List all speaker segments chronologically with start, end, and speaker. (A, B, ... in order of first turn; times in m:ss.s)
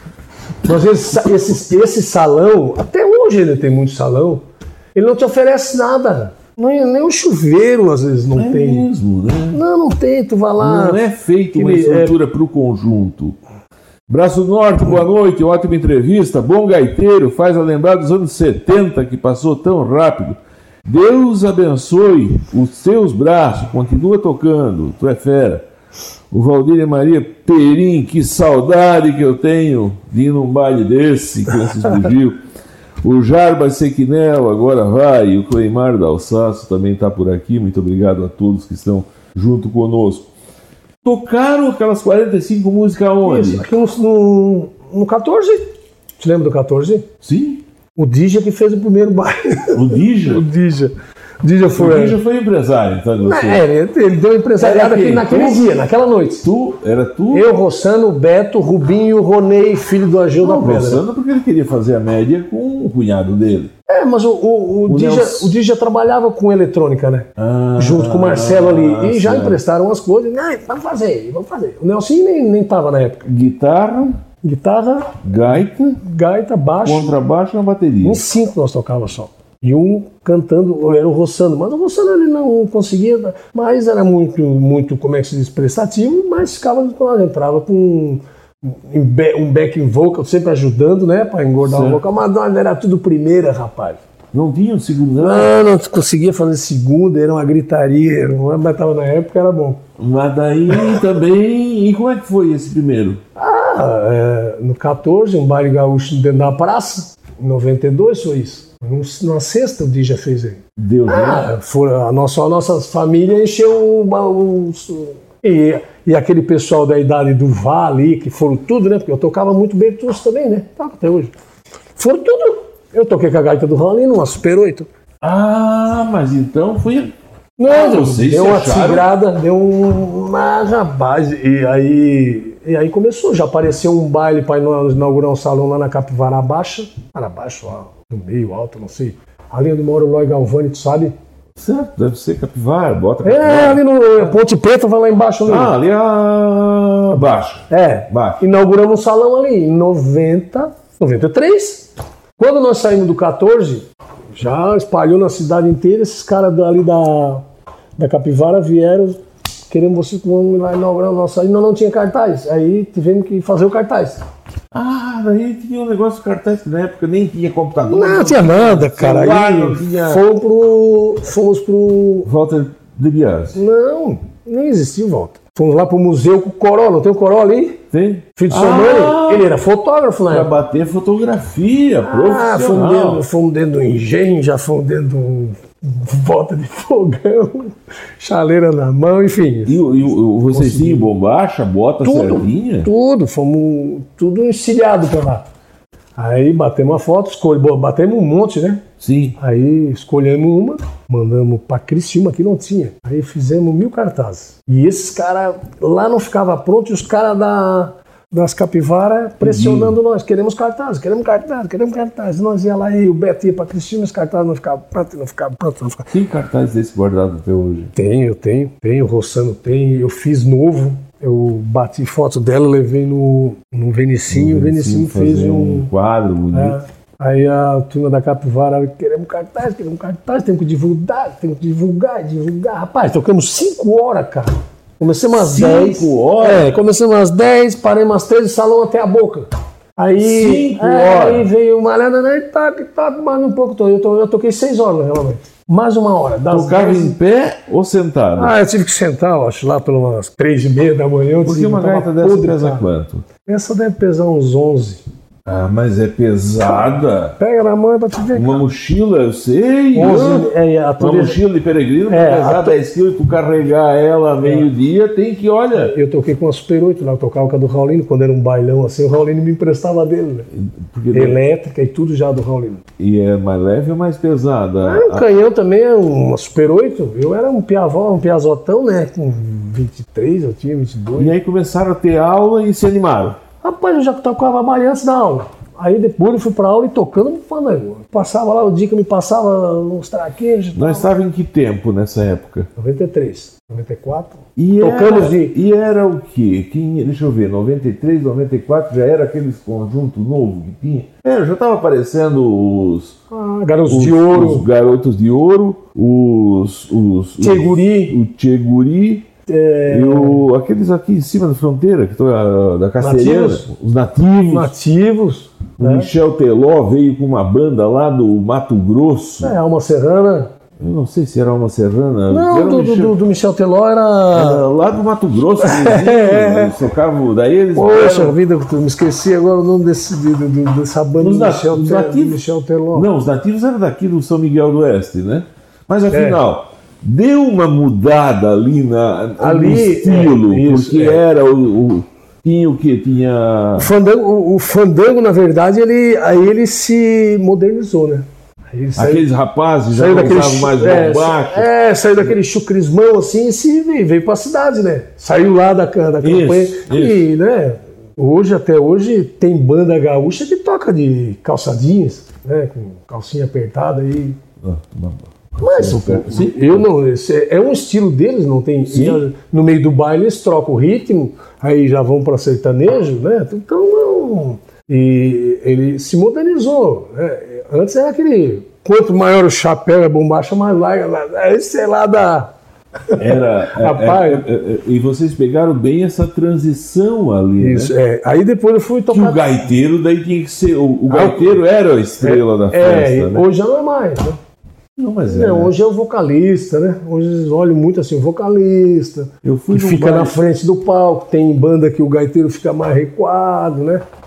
0:00.6-0:04.4 A
0:05.0-0:08.9 A
0:08.4-0:09.6 B
0:09.5-0:11.0 A
0:10.6-0:13.4 B
0:11.5-0:12.2 A
0:14.1-0:25.6 B
0:26.3-0:32.4 B
0:33.0-0:40.3 B
0:41.0-0:43.7 B
0:43.2-0:47.1 A
0:47.2-0:47.6 B
0:48.0-0:52.2 A
0:49.7-0:50.5 B
0:51.8-0:53.6 B
0:53.2-0:56.5 A
0:54.6-0:55.7 B
0:56.4-0:57.5 B
0:57.3-1:01.0 A
1:00.4-1:03.7 B
1:03.9-1:13.3 A
1:04.9-1:05.6 B
1:07.4-1:09.6 B
1:13.3-1:14.2 B
1:14.4-1:17.1 A
1:15.2-1:16.0 B
1:16.8-1:18.2 B
1:18.0-1:34.0 A
1:31.6-1:32.0 B
1:34.3-1:35.5 B
1:35.2-1:39.8 A
1:40.0-1:43.2 B
1:40.7-1:41.0 A
1:43.4-2:01.3 A
1:50.8-1:51.5 B
2:02.0-2:04.9 A
2:05.2-2:07.1 B
2:07.6-2:21.1 A
2:07.7-2:09.1 B
2:21.6-2:23.8 B
2:23.2-2:25.7 A
2:25.5-2:28.4 B
2:27.1-2:37.4 A
2:38.0-2:44.2 A
2:44.7-2:50.2 B
2:47.9-2:52.3 A
2:52.2-2:53.6 B
2:53.6-2:57.8 A
2:57.9-2:59.5 B
2:58.4-3:00.5 A
3:00.3-3:03.2 B
3:02.0-3:11.1 A
3:09.7-3:12.9 B
3:12.0-3:15.5 A
3:16.2-3:18.8 A
3:19.0-3:19.4 B
3:19.4-3:36.1 A
3:29.4-3:30.0 B
3:36.1-3:37.9 B
3:38.0-3:45.9 A
3:44.3-3:46.8 B
3:46.5-4:07.2 A
3:55.4-3:56.8 B
4:00.2-4:01.5 B
4:06.5-4:08.6 B
4:08.4-4:12.9 A
4:11.4-4:13.3 B
4:13.4-4:15.0 A
4:15.5-4:17.4 B
4:17.4-4:18.6 A
4:18.3-4:25.9 B
4:19.9-4:21.4 A
4:22.1-4:22.8 A
4:24.4-4:24.7 A
4:25.7-4:30.5 A
4:30.5-4:31.4 B
4:31.1-4:32.8 A
4:33.0-4:35.3 B
4:34.8-4:41.3 A
4:41.2-4:43.4 B
4:43.6-4:51.1 A
4:50.8-4:52.7 B
4:52.8-4:55.6 A
4:54.6-5:03.2 B
5:03.3-5:04.7 A
5:03.9-5:09.3 B
5:07.4-5:08.2 A
5:09.5-5:10.5 A
5:09.9-5:14.7 B
5:13.0-5:13.7 A
5:14.5-5:16.1 A
5:15.8-5:19.6 B
5:19.4-5:20.5 A
5:20.8-5:23.2 B
5:22.3-5:24.6 A
5:24.3-5:28.4 B
5:25.6-5:26.8 A
5:27.8-5:33.1 A
5:31.2-5:32.4 B
5:32.9-5:43.9 B
5:36.1-5:36.4 A
5:39.4-5:41.2 A
5:43.8-5:49.3 A
5:49.0-5:51.7 B
5:49.9-6:04.4 A
5:56.2-5:57.3 B
6:04.6-6:06.9 B
6:05.6-6:22.5 A
6:08.9-6:09.2 B
6:23.1-6:24.4 A
6:23.2-6:27.9 B
6:27.6-6:29.7 A
6:29.1-6:33.5 B
6:31.1-6:31.6 A
6:32.2-6:34.4 A
6:35.0-6:35.8 B
6:35.2-6:44.0 A
6:39.4-6:40.4 B